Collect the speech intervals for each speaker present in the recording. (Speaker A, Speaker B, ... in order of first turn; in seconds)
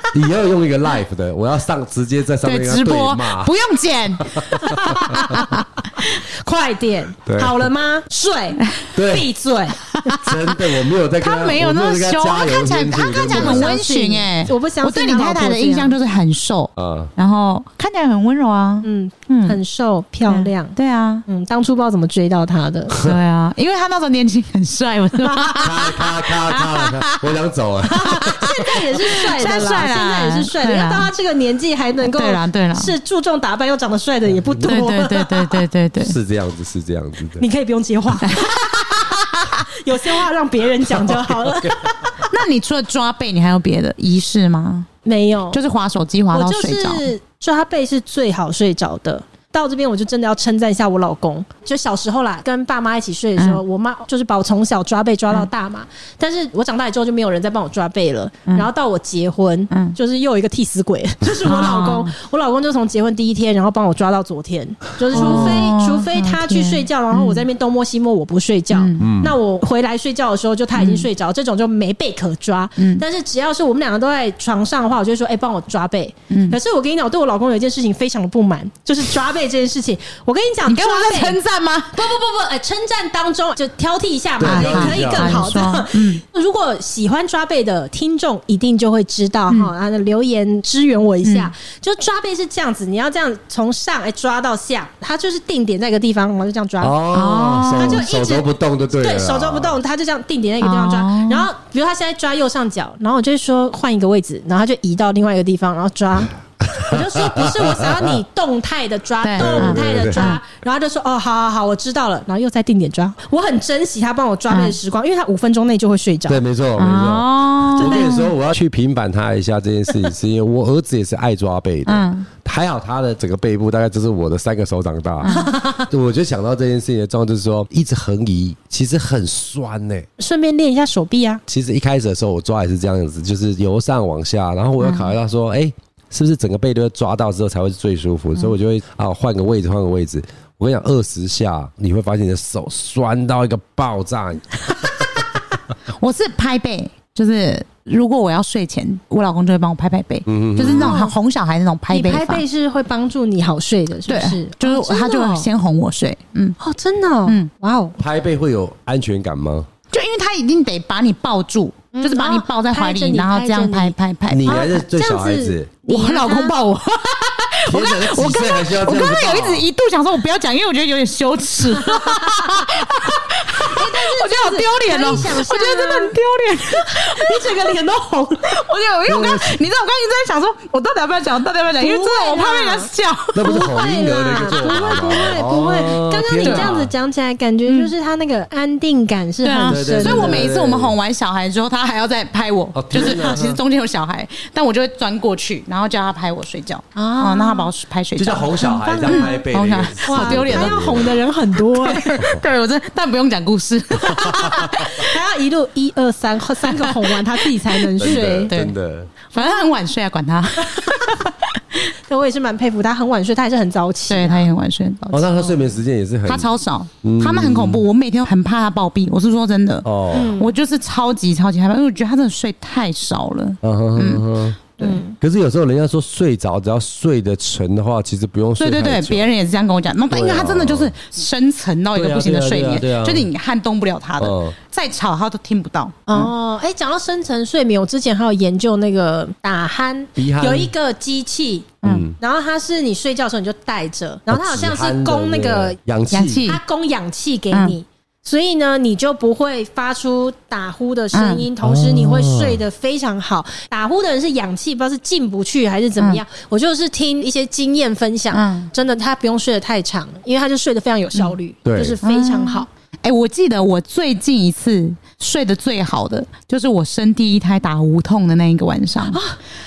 Speaker A: 0.1-3.5, 4.2-5.5, 7.2-7.5, 8.9-9.3, 10.2-13.7, 16.8-17.1, 25.6-28.8, 34.5-34.9, 36.0-37.4, 41.0-41.8, 65.1-65.6, 69.0-69.3, 84.4-85.7, 96.8-99.8, 106.6-108.1, 109.4-110.4, 116.3-130.1, 131.5-145.1, 150.3-151.0, 158.0-159.7, 164.3-165.8, 167.7-169.7, 179.1-179.6, 183.3-186.9, 189.6-190.9, 192.7-193.6, 198.2-201.2, 204.0-204.8, 208.0-209.1, 215.1-216.5, 217.0-217.8, 219.8-220.3, 223.6-224.6, 225.2-229.2, 230.1-230.9, 231.9-233.3, 234.2-234.5, 240.2-240.7, 241.8-242.2, 244.3-246.5, 251.6-252.6, 261.6-262.0
Speaker B: 2.4-5.6, 10.0-10.3, 11.2-19.6, 20.3-21.2, 22.9-27.2, 28.2-31.1, 32.0-32.9, 34.6-36.1, 42.2-44.9, 45.5-47.1, 59.7-60.0, 61.4-62.1, 65.1-67.5, 68.7-69.1, 70.7-71.1, 72.8-73.0, 76.3-76.6, 80.7-82.0, 84.4-86.2, 91.2-91.5, 97.1-98.0, 100.6-101.5, 109.2-110.4, 114.5-114.8, 116.8-118.2, 121.8-122.3, 125.2-125.5, 134.8-135.1, 146.0-152.4, 154.1-156.6, 159.9-164.6, 165.9-177.8, 178.4-183.7, 184.6-185.0, 186.4-186.7, 189.4-201.0, 201.8-205.0, 206.8-208.7, 209.3-211.6, 214.1-215.7, 216.2-224.2, 228.6-236.3, 241.8-242.1, 246.1-246.6, 247.5-247.8, 251.1-251.5, 258.3-258.7, 262.0-269.2
Speaker C: 4.5-10.3, 13.3-16.0, 18.8-20.7, 21.2-23.0, 25.2-25.9, 27.8-35.6, 37.4-42.2, 45.0-45.6, 46.3-81.4, 81.9-97.0, 97.7-116.4, 117.8-118.3, 125.2-125.9, 130.2-131.4, 150.6-151.1, 151.9-155.5, 156.6-157.9, 161.9-166.6, 171.7-172.8, 173.5-176.2, 176.7-178.6, 181.8-190.5, 196.9-197.7, 198.6-199.4, 200.0-202.3, 204.2-208.5, 209.3-209.6, 210.7-211.1, 212.1-214.5, 220.1-220.5, 224.8-225.2, 236.1-245.8, 246.4-262.7, 269.1-269.4